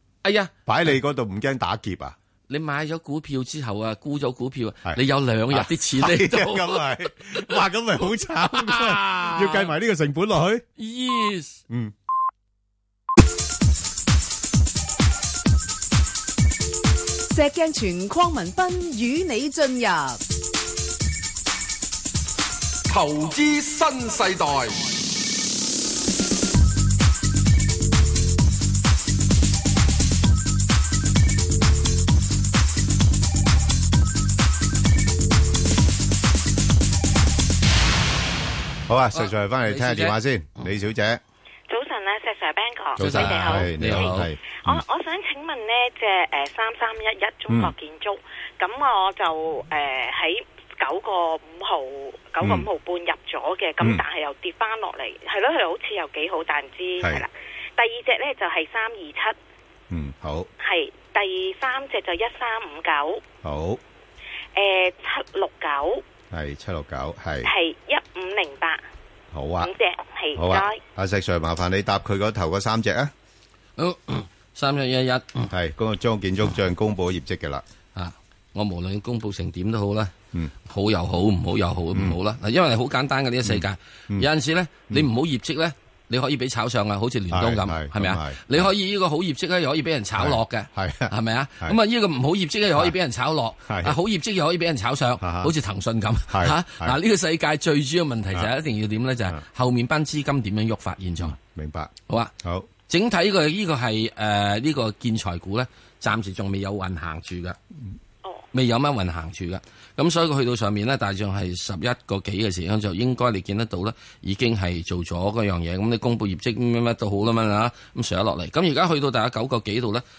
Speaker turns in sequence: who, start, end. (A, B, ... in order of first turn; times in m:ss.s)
0:00.2-0:00.5 A
0:00.7-0:02.2 B
0:02.5-0:07.6 A
0:04.8-0:10.7 B
0:08.4-0:09.7 A
0:10.8-0:11.6 A
0:11.7-0:12.0 B
0:17.3-0:20.2 C
0:22.9-0:24.8 D
0:38.9-0:41.2 B
0:39.1-0:40.2 A
0:41.7-0:59.4 E
0:43.0-0:44.8 B
0:43.0-0:44.3 A
0:52.4-0:52.7 B
0:59.9-1:00.5 B
1:00.6-1:03.2 E
1:03.4-1:03.8 B
1:04.6-1:06.0 E
1:06.3-1:07.5 B
1:07.4-1:08.8 E
1:09.3-1:09.7 B
1:09.6-1:10.8 E
1:10.4-1:13.1 B
1:13.8-1:15.5 A
1:15.5-1:17.6 B
1:18.0-1:20.1 A
1:20.6-1:41.4 A
1:23.4-1:24.3 B
1:27.3-1:28.7 B
1:30.2-1:31.8 B
1:33.6-1:34.0 B
1:35.2-1:35.5 B
1:36.3-1:37.0 B
1:41.2-1:42.7 B
1:42.1-1:42.3 A
1:42.9-1:47.6 A
1:48.5-2:00.0 A